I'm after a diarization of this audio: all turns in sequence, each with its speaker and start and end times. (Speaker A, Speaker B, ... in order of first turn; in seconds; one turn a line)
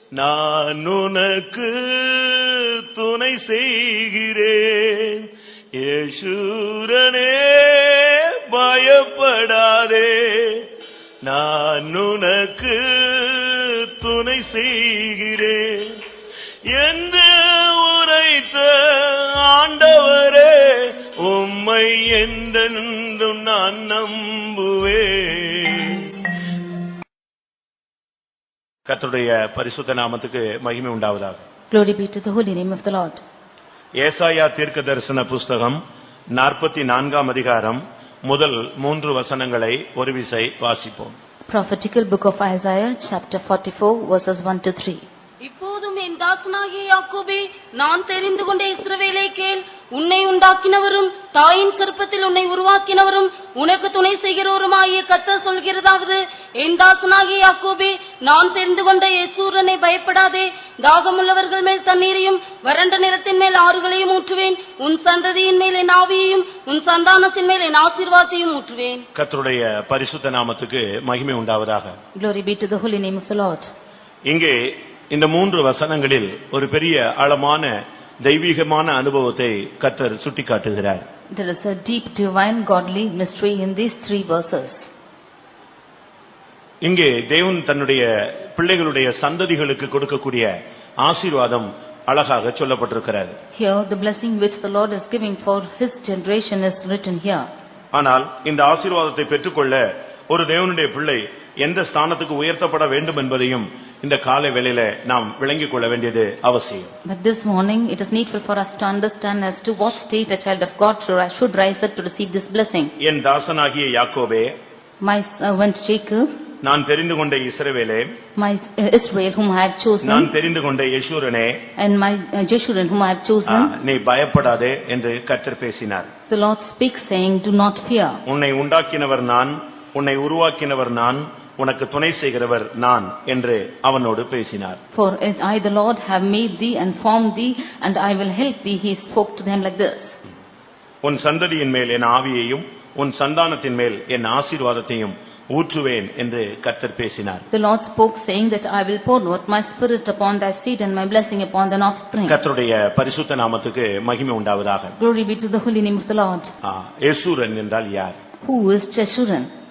Speaker A: 0.1-10.7
Speaker A: 11.2-16.0
Speaker A: 16.7-26.1
Speaker A: 28.9-31.4
Speaker B: 31.7-33.2
Speaker A: 34.0-35.8
Speaker A: 36.4-41.2
Speaker B: 41.5-45.0
Speaker C: 45.4-69.0
Speaker A: 69.2-72.0
Speaker B: 72.2-73.7
Speaker A: 74.3-77.7
Speaker A: 78.2-81.0
Speaker B: 81.3-84.9
Speaker A: 86.8-93.4
Speaker B: 93.5-97.5
Speaker A: 97.9-106.9
Speaker B: 107.1-112.9
Speaker A: 113.0-114.5
Speaker B: 115.0-116.3
Speaker A: 116.6-118.1
Speaker B: 118.4-120.3
Speaker A: 120.0-121.6
Speaker B: 121.8-123.7
Speaker A: 123.5-126.1
Speaker B: 126.3-128.2
Speaker A: 128.3-134.8
Speaker B: 134.9-140.2
Speaker A: 141.0-147.5
Speaker B: 147.5-152.4
Speaker A: 152.3-154.9
Speaker B: 155.0-156.5
Speaker A: 156.6-158.2
Speaker B: 158.4-159.5